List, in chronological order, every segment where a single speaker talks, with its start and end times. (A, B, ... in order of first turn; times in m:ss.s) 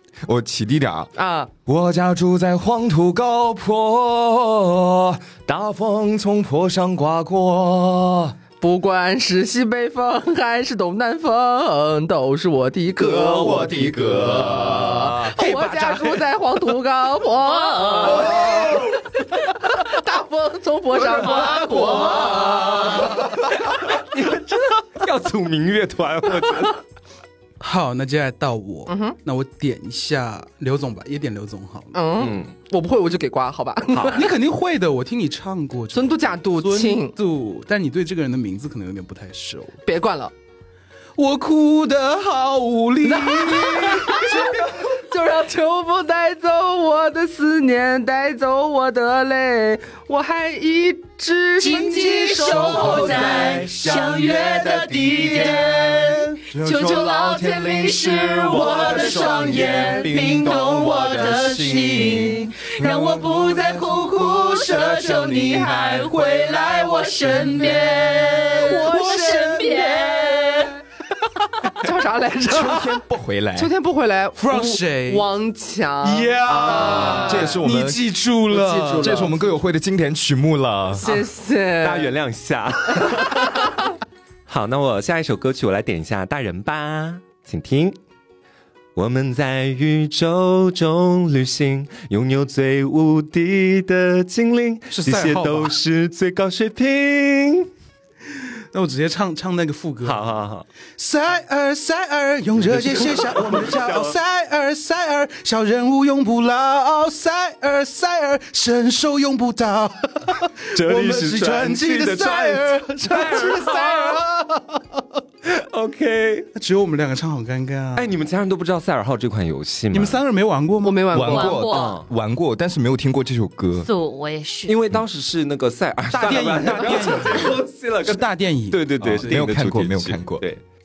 0:00.2-0:01.1 A
0:01.1-0:01.5 B
0:01.6-0:08.3 A
0:08.6-0:13.9 B
0:12.9-0:15.3 A
0:14.5-0:23.3 B
0:15.3-0:16.2 C
0:17.4-0:18.3 D
0:21.0-0:23.5 A
0:23.9-0:26.8 E
0:27.6-0:31.9 C
0:28.9-0:29.2 B
0:31.9-0:34.3 B
0:32.2-0:32.5 E
0:33.9-0:34.3 E
0:34.1-0:39.8 C
0:35.9-0:37.2 B
0:39.8-0:40.3 B
0:41.2-0:44.6 C
0:43.0-0:52.8 B
0:51.6-1:10.8 D
0:52.2-0:56.3 C
0:52.4-0:54.1 A
0:54.9-0:55.7 A
0:56.5-1:03.8 A
0:58.5-0:59.7 E
1:08.5-1:09.9 C
1:08.6-1:09.9 B
1:11.7-1:12.9 B
1:12.4-1:13.7 A
1:13.5-1:17.6 B
1:14.4-1:15.2 C
1:16.0-1:19.4 C
1:16.6-1:18.2 A
1:18.5-1:19.6 B
1:18.9-1:21.1 A
1:21.0-1:22.1 B
1:21.8-1:23.9 E
1:24.5-1:28.0 E
1:28.9-1:37.7 E
1:34.9-1:35.7 C
1:38.7-1:40.3 C
1:40.0-1:40.7 E
1:41.0-1:55.2 C
1:42.6-1:44.2 E
1:50.7-1:54.2 E
1:55.4-1:56.5 E
1:56.5-1:58.1 C
1:57.9-2:00.2 E
1:59.9-2:01.1 C
2:00.8-2:01.6 B
2:01.1-2:03.9 A
2:01.2-2:02.0 D
2:01.7-2:02.1 E
2:03.8-2:04.8 D
2:04.7-2:10.6 E
2:06.1-2:09.4 C
2:09.0-2:10.4 A